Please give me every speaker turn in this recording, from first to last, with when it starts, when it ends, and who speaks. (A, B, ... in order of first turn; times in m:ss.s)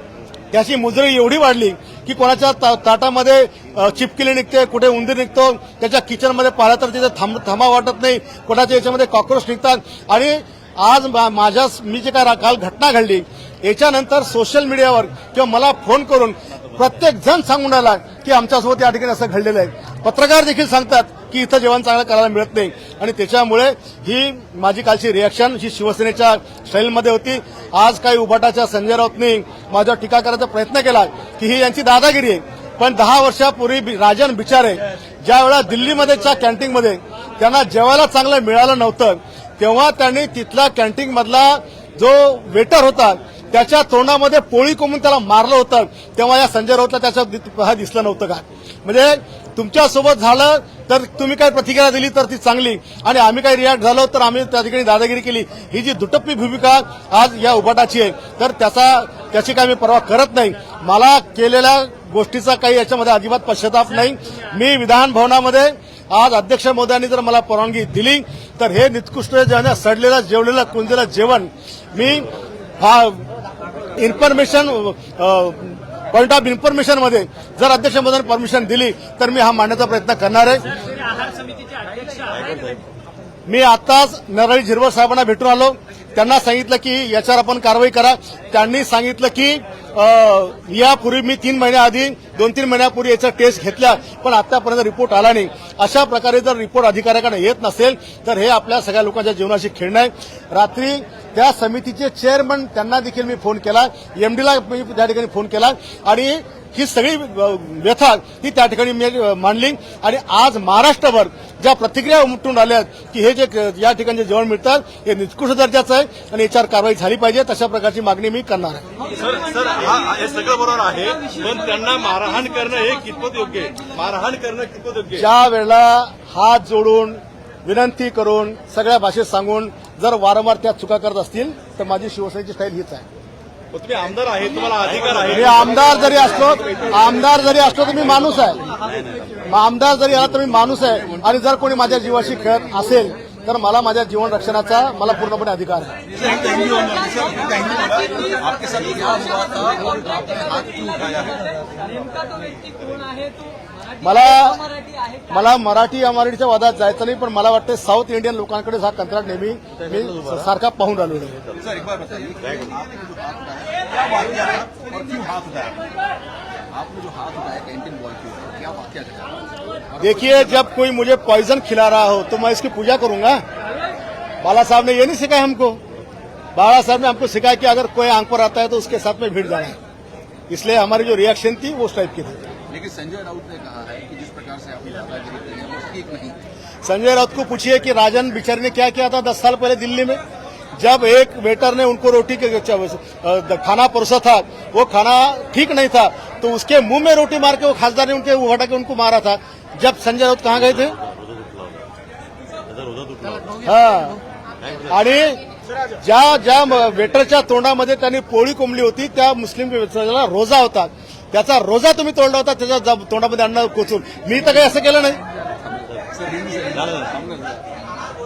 0:00.5-1:12.3 A
1:12.8-1:13.2 A
1:13.9-1:20.7 A
1:20.7-1:22.8 B
1:23.5-1:58.8 A
1:59.2-2:05.2 C
2:05.2-2:13.0 A
2:13.7-2:16.3 C
2:15.3-2:18.6 A
2:19.4-2:25.9 A
2:26.2-2:31.4 D
2:34.0-2:34.7 A
2:35.3-2:41.4 A
2:41.6-2:45.8 D
2:46.7-2:50.6 D
2:50.0-2:53.4 A
2:54.4-2:55.8 A
2:56.5-2:59.8 A
3:00.5-3:02.4 A
3:02.7-3:06.4 D
3:06.8-3:10.2 A
3:10.8-3:21.0 A
3:23.6-3:24.2 A
3:24.9-3:25.4 A
3:26.0-3:35.2 A
3:35.6-3:37.6 D